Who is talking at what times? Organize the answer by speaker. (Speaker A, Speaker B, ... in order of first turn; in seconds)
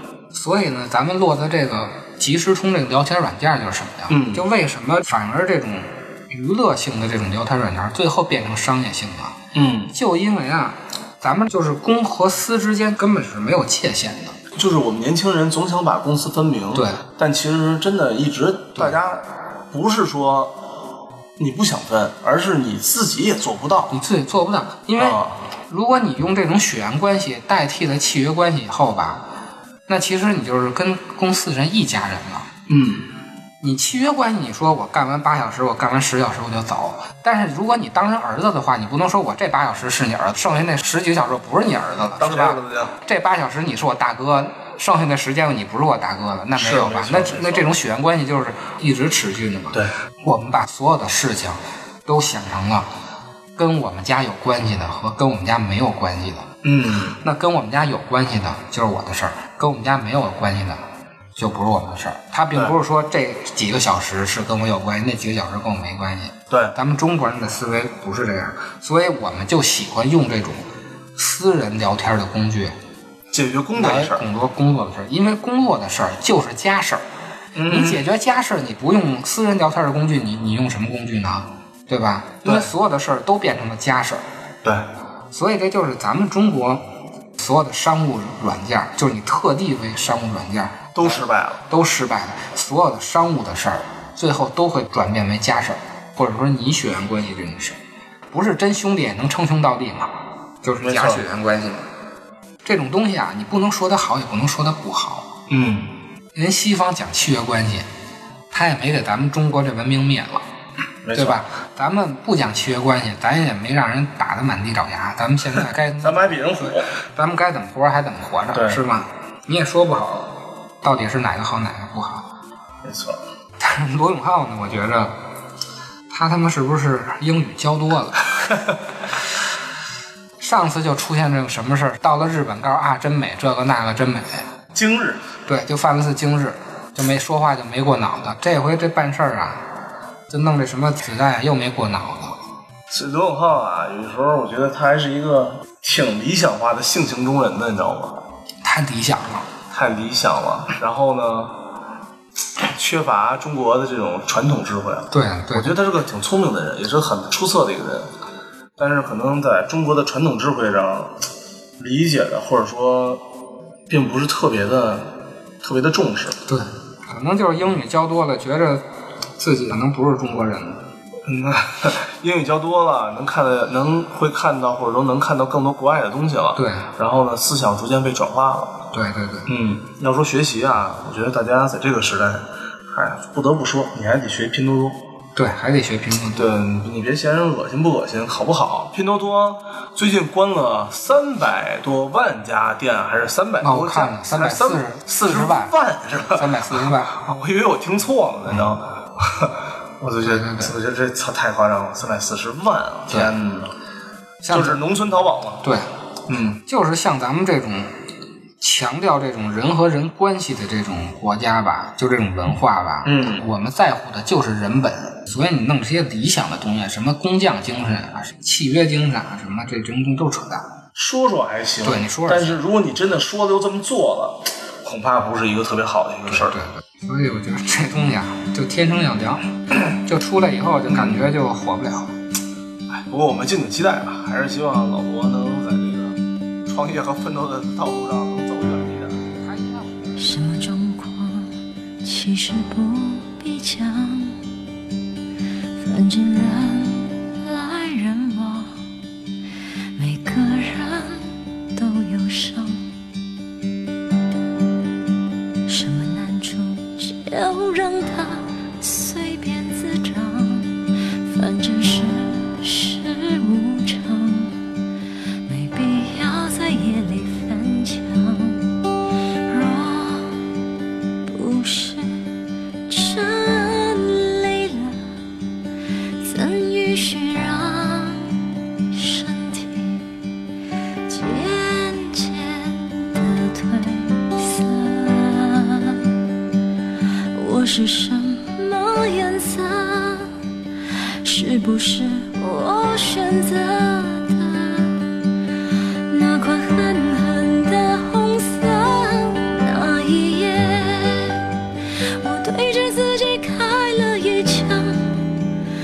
Speaker A: 0.3-9.4, 9.9-14.4, 16.7-17.0, 23.9-29.2, 29.9-32.5, 33.6-52.9, 53.6-56.5, 57.2-60.8, 61.4-72.8, 73.8-77.0, 77.7-84.2, 85.3-86.8, 87.4-97.8, 98.3-101.9, 102.6-105.3, 106.3-107.9, 108.5-110.4, 111.1-122.3, 123.6-125.1, 126.1-128.3, 130.4-134.4, 135.4-139.6, 140.3-142.4, 148.6-149.5, 155.1-155.8, 166.5-168.8, 169.4-170.9, 176.6-176.9, 178.9-179.5, 185.4-186.5, 193.6-195.7, 196.2-197.2, 200.2-200.7, 204.4-204.8, 205.6-205.9, 206.6-207.9, 208.6-220.7, 221.8-222.6, 226.3-232.1, 239.4-240.5
Speaker B: 4.1-4.5, 9.5-9.9, 14.5-20.5, 21.4-23.9, 25.0-25.4, 32.7-33.1, 42.2-42.9, 46.6-47.7, 56.6-57.2, 66.5-66.7, 73.3-74.2, 77.5-78.0, 82.4-82.7, 90.9-91.6, 100.8-101.2, 105.5-105.9, 111.0-111.4, 116.0-116.9, 118.5-118.8, 122.8-123.2, 134.7-135.2, 142.9-148.2, 149.7-151.6, 152.6-158.1, 158.8-161.2, 161.8-163.2, 163.9-166.4, 171.2-178.8, 179.5-185.0, 186.3-203.7, 204.5-205.6, 206.3-206.6, 213.0-213.4, 220.9-226.6, 230.9-231.3, 232.9-239.3
Speaker C: 240.2-244.4, 245.8-248.8, 249.9-252.8, 255.7-264.6, 265.4-268.7, 269.5-270.4, 271.3-272.2, 272.9-275.0, 276.2-280.1, 281.1-286.1, 287.3-290.3, 291.2-295.0, 296.1-301.5, 302.1-305.3